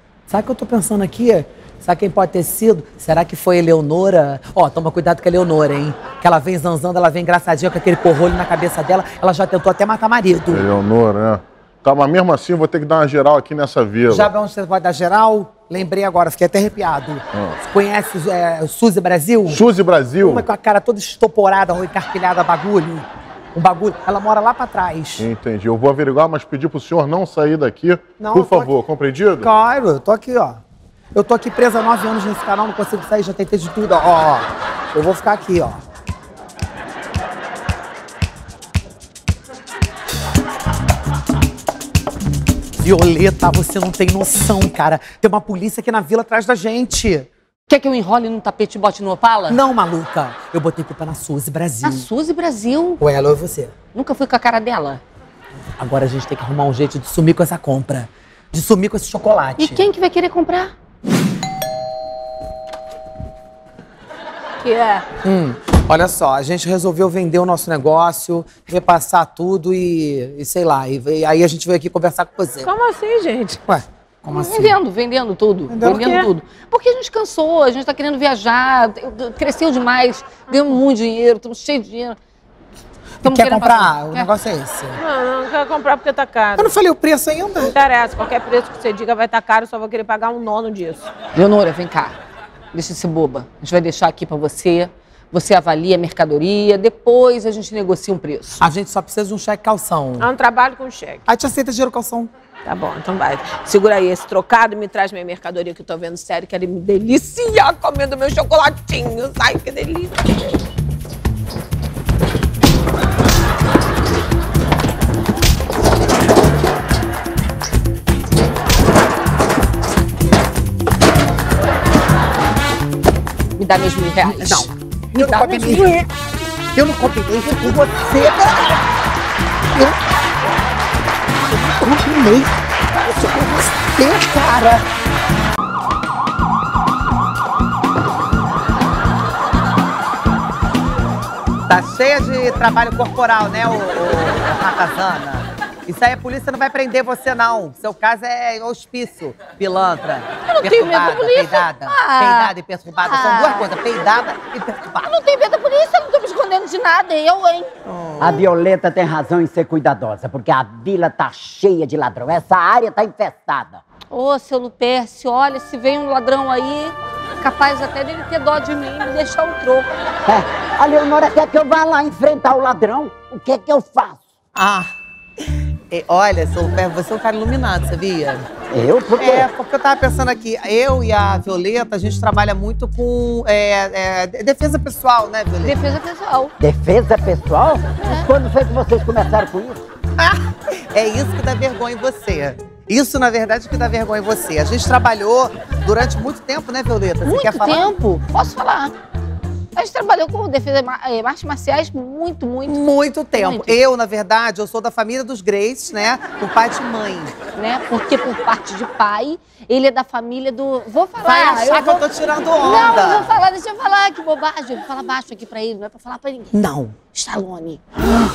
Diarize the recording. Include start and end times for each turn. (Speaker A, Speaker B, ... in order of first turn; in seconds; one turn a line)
Speaker A: 0.3-10.7
Speaker B: 10.5-14.3
Speaker A: 14.1-19.6
Speaker B: 19.5-20.5
Speaker A: 20.2-25.2
Speaker B: 25.2-29.5
Speaker A: 28.2-28.8
Speaker A: 29.4-30.6
Speaker A: 31.1-35.8
Speaker A: 42.8-47.3
Speaker C: 47.7-49.6
Speaker A: 49.5-52.1
Speaker C: 51.8-53.0
Speaker A: 53.0-53.8
Speaker C: 53.9-55.0
Speaker A: 55.8-59.8
Speaker C: 59.6-60.7
Speaker D: 64.6-65.1
Speaker A: 65.2-72.7
Speaker D: 72.7-73.6
Speaker A: 73.7-74.8
Speaker C: 74.3-82.2
Speaker A: 75.7-76.3
Speaker C: 83.2-84.3
Speaker A: 83.2-85.0
Speaker D: 85.0-86.7
Speaker A: 86.6-87.8
Speaker D: 87.6-91.1
Speaker C: 91.3-92.2
Speaker C: 92.7-98.6
Speaker A: 98.6-100.3
Speaker D: 100.2-101.2
Speaker A: 101.3-102.3
Speaker D: 102.7-110.5
Speaker C: 123.6-126.0
Speaker A: 124.3-125.9
Speaker A: 126.8-128.8
Speaker A: 131.7-132.5
Speaker A: 133.9-134.8
Speaker A: 141.7-155.1
Speaker C: 150.5-152.5
Speaker C: 153.1-153.7
Speaker C: 155.0-157.7
Speaker A: 157.9-158.3
Speaker E: 158.2-163.8
Speaker C: 164.1-169.9
Speaker E: 170.3-174.2
Speaker A: 174.6-174.9
Speaker A: 175.9-178.5
Speaker E: 178.7-179.5
Speaker A: 179.2-185.8
Speaker C: 185.6-186.5
Speaker E: 186.6-189.8
Speaker A: 190.2-197.9
Speaker C: 197.2-198.9
Speaker C: 199.8-203.8
Speaker A: 202.7-207.4
Speaker C: 207.6-217.8
Speaker A: 211.2-213.3
Speaker A: 216.5-216.9